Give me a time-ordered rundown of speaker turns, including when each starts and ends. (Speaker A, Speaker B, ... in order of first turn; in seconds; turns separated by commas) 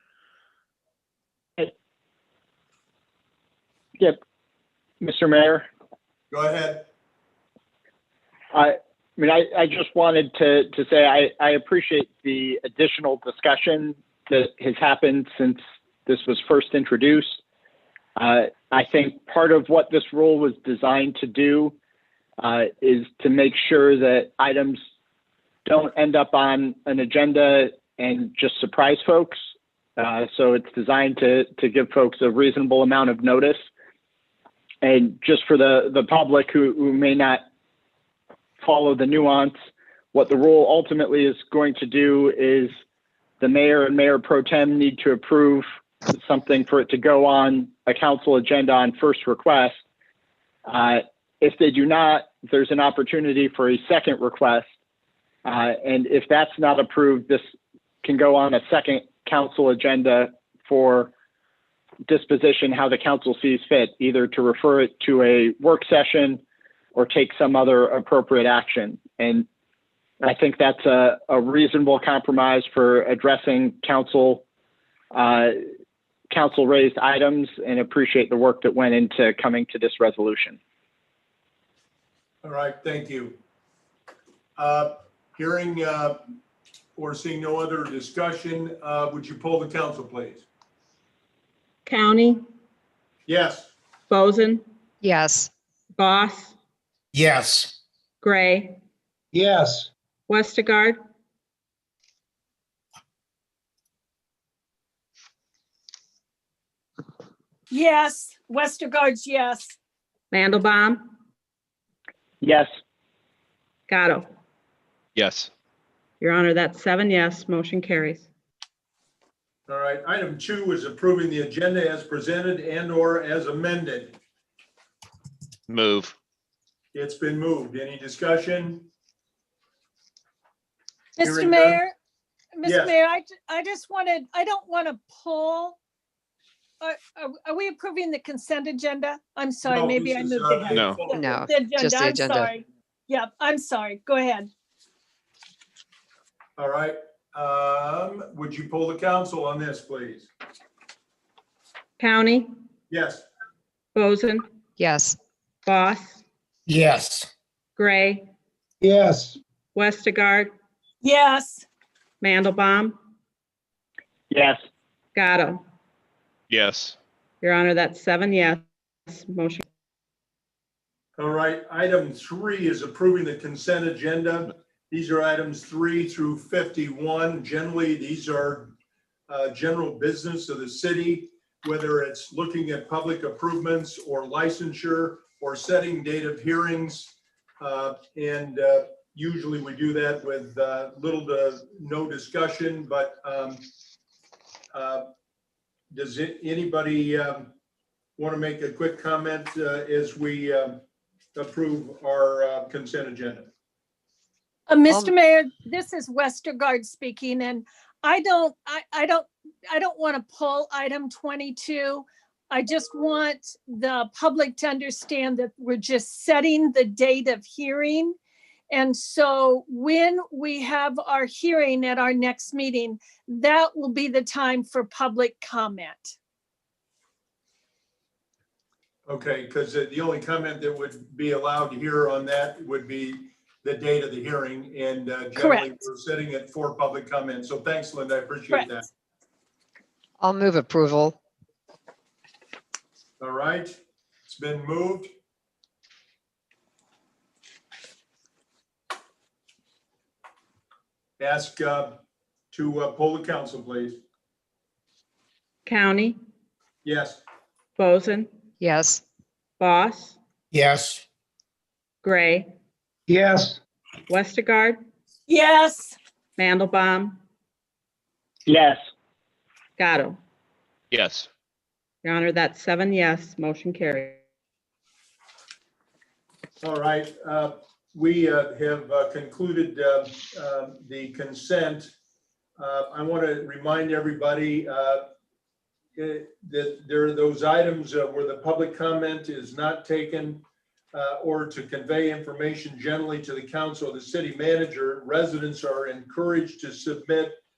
Speaker A: 5.0-5.7, Speaker B: 6.3-6.9, Speaker A: 8.5-17.4, Speaker A: 18.2-21.8, Speaker A: 22.4-24.8, Speaker A: 25.6-29.4, Speaker A: 30.0-33.6, Speaker A: 34.8-37.4, Speaker A: 38.6-39.5, Speaker A: 40.1-42.7, Speaker A: 43.4-49.8, Speaker A: 50.7-54.7, Speaker A: 55.5-57.4, Speaker A: 58.0-61.1, Speaker A: 62.1-66.4, Speaker A: 67.0-69.5, Speaker A: 70.2-74.4, Speaker A: 75.1-75.6, Speaker A: 76.3-80.6, Speaker B: 82.4-83.4, Speaker B: 84.6-86.2, Speaker B: 87.0-90.5, Speaker C: 91.9-92.4, Speaker B: 93.3-93.7, Speaker C: 94.1-94.6, Speaker D: 95.0-95.5, Speaker C: 96.0-96.5, Speaker E: 97.1-97.8, Speaker C: 98.2-98.8, Speaker E: 99.3-99.9, Speaker C: 100.3-101.0, Speaker F: 107.7-109.8, Speaker C: 110.3-111.1, Speaker A: 112.4-112.7, Speaker C: 113.9-114.3, Speaker G: 115.2-115.5, Speaker C: 116.2-118.2, Speaker B: 119.7-124.2, Speaker G: 125.7-126.2, Speaker B: 126.9-128.9, Speaker F: 131.2-131.9, Speaker B: 131.2-131.8, Speaker F: 132.6-135.8, Speaker B: 132.6-132.9, Speaker F: 136.8-144.5, Speaker B: 139.7-141.1, Speaker G: 140.7-141.0, Speaker D: 141.1-142.5, Speaker B: 146.6-150.3, Speaker C: 152.0-152.5, Speaker B: 152.9-153.3, Speaker C: 153.9-154.4, Speaker D: 154.8-155.2, Speaker C: 155.7-156.2, Speaker E: 156.7-157.3, Speaker C: 157.8-158.3, Speaker E: 158.8-159.4, Speaker C: 159.8-160.5, Speaker F: 161.0-161.7, Speaker C: 162.2-163.0, Speaker A: 164.3-164.6, Speaker C: 165.2-165.6, Speaker G: 166.5-167.0, Speaker C: 167.4-169.6, Speaker B: 171.2-178.7, Speaker B: 179.3-193.7, Speaker B: 194.7-195.1, Speaker B: 195.9-197.5, Speaker B: 198.2-200.8, Speaker B: 201.3-203.5, Speaker F: 204.7-218.2, Speaker F: 218.7-226.2, Speaker B: 229.1-238.9, Speaker F: 235.3-235.8, Speaker F: 238.5-238.8, Speaker D: 240.2-241.2, Speaker B: 243.2-243.8, Speaker B: 244.3-245.1, Speaker B: 251.2-252.0, Speaker B: 252.5-254.0, Speaker C: 255.7-256.2, Speaker B: 256.8-257.2, Speaker C: 257.8-258.3, Speaker D: 258.6-259.0, Speaker C: 259.6-260.2, Speaker E: 260.5-261.0, Speaker C: 262.0-262.5, Speaker E: 263.1-263.6, Speaker C: 264.1-264.8, Speaker F: 265.3-266.0, Speaker C: 266.4-267.2, Speaker A: 268.5-268.8, Speaker C: 269.8-270.2, Speaker G: 270.9-271.3, Speaker C: 272.0-274.2, Speaker B: 276.6-281.9, Speaker B: 282.6-285.1, Speaker B: 286.0-297.4